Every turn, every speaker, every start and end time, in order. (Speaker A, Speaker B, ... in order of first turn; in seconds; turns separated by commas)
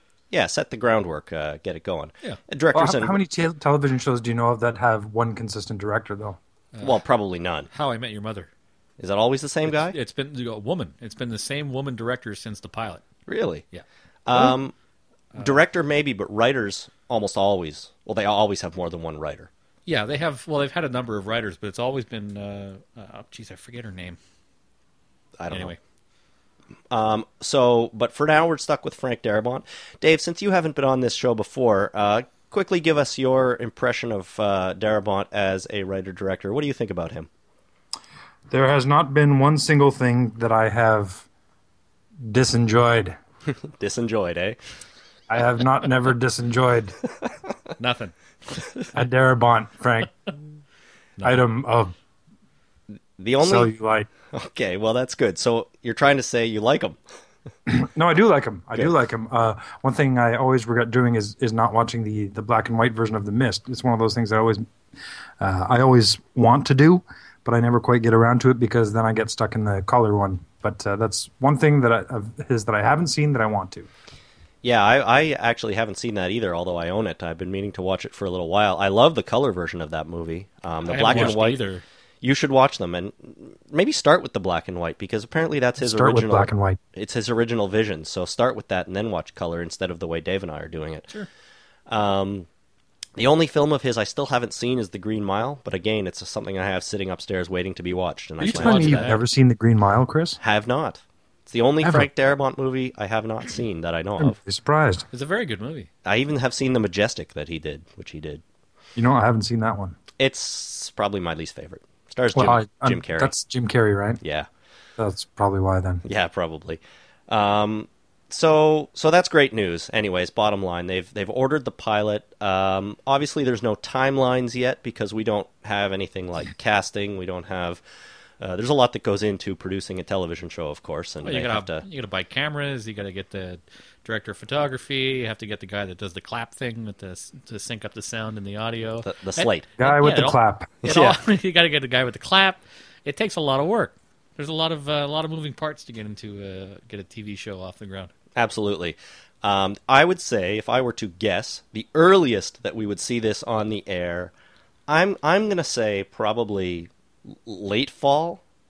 Speaker A: 0.3-3.2, Speaker B: 2.7-6.4, Speaker C: 6.7-7.0, Speaker A: 6.8-7.7, Speaker C: 7.7-8.5, Speaker A: 9.0-9.9, Speaker C: 9.7-13.0, Speaker A: 13.3-13.6, Speaker A: 14.2-14.7, Speaker A: 15.4-19.5, Speaker C: 19.9-24.2, Speaker A: 25.4-25.7, Speaker C: 25.5-25.8, Speaker A: 26.9-37.3, Speaker B: 38.5-41.2, Speaker B: 42.2-43.2, Speaker A: 43.8-44.6, Speaker B: 45.3-47.0, Speaker C: 47.8-48.6, Speaker B: 48.9-50.1, Speaker C: 51.2-51.4, Speaker B: 51.2-51.9, Speaker A: 53.2-53.7, Speaker B: 53.4-54.1, Speaker A: 54.3-57.0, Speaker B: 57.6-64.6, Speaker B: 65.4-73.9, Speaker A: 74.6-81.6, Speaker C: 80.8-81.8, Speaker A: 82.2-91.1, Speaker B: 85.8-86.8, Speaker A: 91.9-92.5, Speaker A: 93.2-99.2, Speaker B: 98.4-100.4, Speaker C: 98.5-99.2, Speaker A: 100.4-104.4, Speaker B: 101.8-102.1, Speaker B: 104.2-105.0, Speaker C: 105.1-105.9, Speaker A: 106.0-108.4, Speaker B: 109.0-110.0, Speaker A: 110.2-113.3, Speaker B: 112.3-114.2, Speaker A: 114.2-114.5, Speaker B: 115.0-116.0, Speaker A: 116.0-127.8, Speaker A: 128.4-131.8, Speaker C: 131.2-148.1, Speaker A: 139.0-139.7, Speaker B: 139.8-140.8, Speaker A: 140.8-141.2, Speaker A: 148.3-154.3, Speaker A: 154.9-158.4